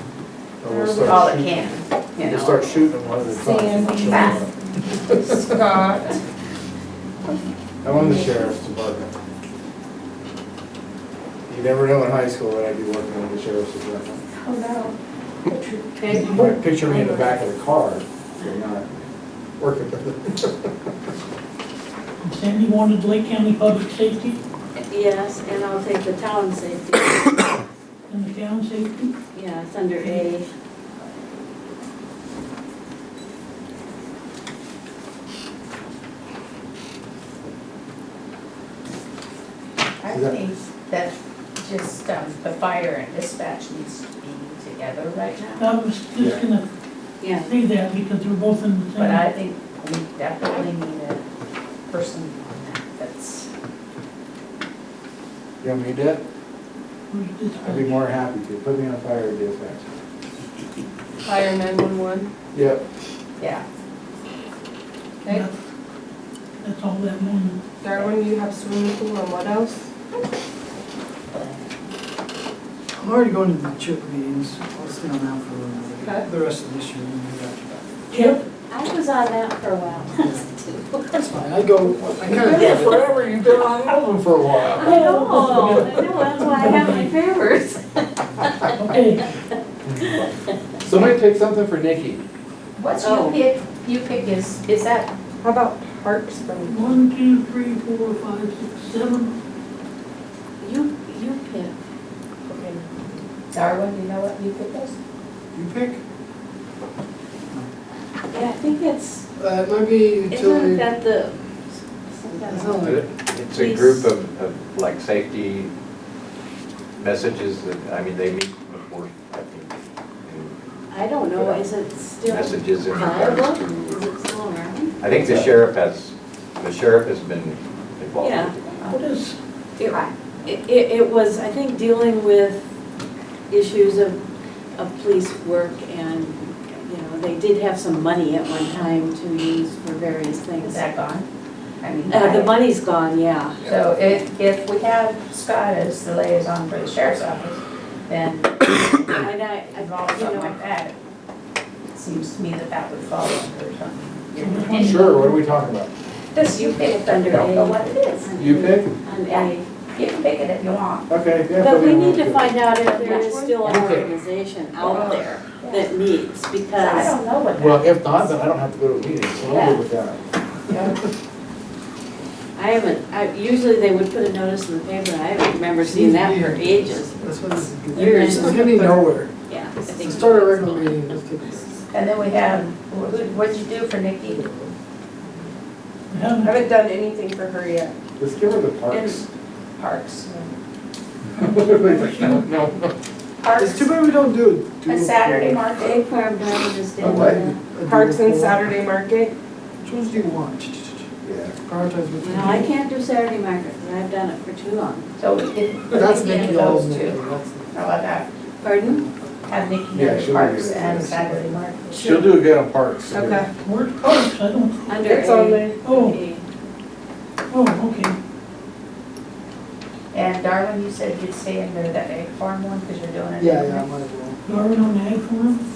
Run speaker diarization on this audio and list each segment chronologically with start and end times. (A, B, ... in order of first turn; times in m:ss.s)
0:00.6-0:05.2 A
0:00.8-0:01.2 B
0:01.0-0:02.8 C
0:03.5-0:04.3 B
0:04.1-0:04.4 C
0:05.6-0:06.0 B
0:07.8-0:09.1 A
0:11.5-0:14.2 A
0:14.3-0:15.0 C
0:16.1-0:16.6 D
0:16.1-0:18.9 A
0:19.6-0:20.7 A
0:22.2-0:24.4 D
0:24.8-0:27.4 E
0:28.1-0:29.2 D
0:29.3-0:30.5 E
0:30.0-0:30.3 D
0:40.0-0:45.7 C
0:40.1-0:40.4 A
0:45.6-0:46.7 D
0:47.2-0:47.5 E
0:47.4-0:49.3 D
0:49.0-0:51.2 C
0:51.9-0:53.5 C
0:55.6-0:56.2 A
0:57.1-0:58.0 D
0:57.6-1:00.0 A
1:01.4-1:02.3 B
1:02.5-1:02.8 A
1:03.4-1:03.6 C
1:05.2-1:05.6 D
1:06.6-1:07.6 D
1:07.8-1:09.8 B
1:12.9-1:18.0 F
1:18.1-1:21.2 E
1:18.1-1:18.4 D
1:21.1-1:22.9 F
1:22.2-1:24.9 A
1:22.4-1:23.3 E
1:24.7-1:29.1 E
1:24.8-1:27.1 D
1:28.7-1:29.2 D
1:29.9-1:30.3 A
1:30.8-1:32.3 A
1:32.8-1:35.1 C
1:33.0-1:33.4 E
1:35.4-1:36.8 B
1:36.6-1:39.4 D
1:40.6-1:41.8 E
1:43.5-1:45.0 C
1:45.5-1:46.0 F
1:48.3-1:49.3 E
1:49.4-1:50.9 F
1:50.3-1:54.1 E
1:52.4-1:53.1 F
1:52.8-1:53.1 A
1:53.3-1:55.7 G
1:57.0-2:00.6 G
2:00.9-2:05.0 E
2:02.3-2:04.0 G
2:05.0-2:08.7 G
2:08.2-2:08.7 E
2:08.8-2:09.4 D
2:09.8-2:12.6 E
2:13.5-2:14.2 E
2:14.8-2:20.9 E
2:20.6-2:21.3 C
2:21.8-2:22.6 C
2:22.1-2:24.1 E
2:23.6-2:30.9 C
2:29.1-2:30.6 E
2:31.9-2:35.2 C
2:34.3-2:35.3 D
2:34.8-2:35.9 A
2:36.3-2:38.3 C
2:36.4-2:39.7 E
2:38.4-2:38.9 A
2:39.3-2:41.1 C
2:41.1-2:42.5 A
2:41.6-2:47.2 E
2:43.6-2:44.1 A
2:45.6-2:45.9 C
2:46.8-2:48.3 C
2:47.5-2:50.2 A
2:49.4-2:49.8 C
2:50.7-2:50.9 C
2:52.6-2:57.2 E
2:55.8-2:59.3 F
2:57.9-3:01.8 E
2:59.9-3:01.7 F
3:01.9-3:04.4 C
3:04.2-3:04.8 F
3:06.1-3:06.7 D
3:06.4-3:07.9 B
3:08.2-3:09.2 A
3:08.9-3:09.2 E
3:09.8-3:10.2 C
3:11.4-3:12.9 A
3:11.4-3:12.4 D
3:13.4-3:13.9 C
3:13.6-3:15.7 F
3:14.8-3:16.1 C
3:15.8-3:17.6 E
3:17.0-3:17.4 A
3:17.0-3:18.8 F
3:18.0-3:19.3 B
3:19.8-3:21.0 F
3:21.2-3:21.5 A
3:21.6-3:22.7 F
3:22.2-3:25.1 E
3:25.2-3:27.2 C
3:25.9-3:27.9 F
3:27.7-3:28.3 C
3:28.6-3:29.0 E
3:28.8-3:29.4 F
3:29.5-3:32.2 C
3:29.9-3:31.1 A
3:30.7-3:31.6 F
3:32.0-3:33.4 A
3:33.1-3:33.5 B
3:33.6-3:35.1 D
3:34.9-3:36.4 E
3:35.2-3:35.7 B
3:35.8-3:36.2 D
3:37.5-3:38.1 D
3:40.1-3:43.8 C
3:43.4-3:44.4 F
3:44.4-3:45.6 D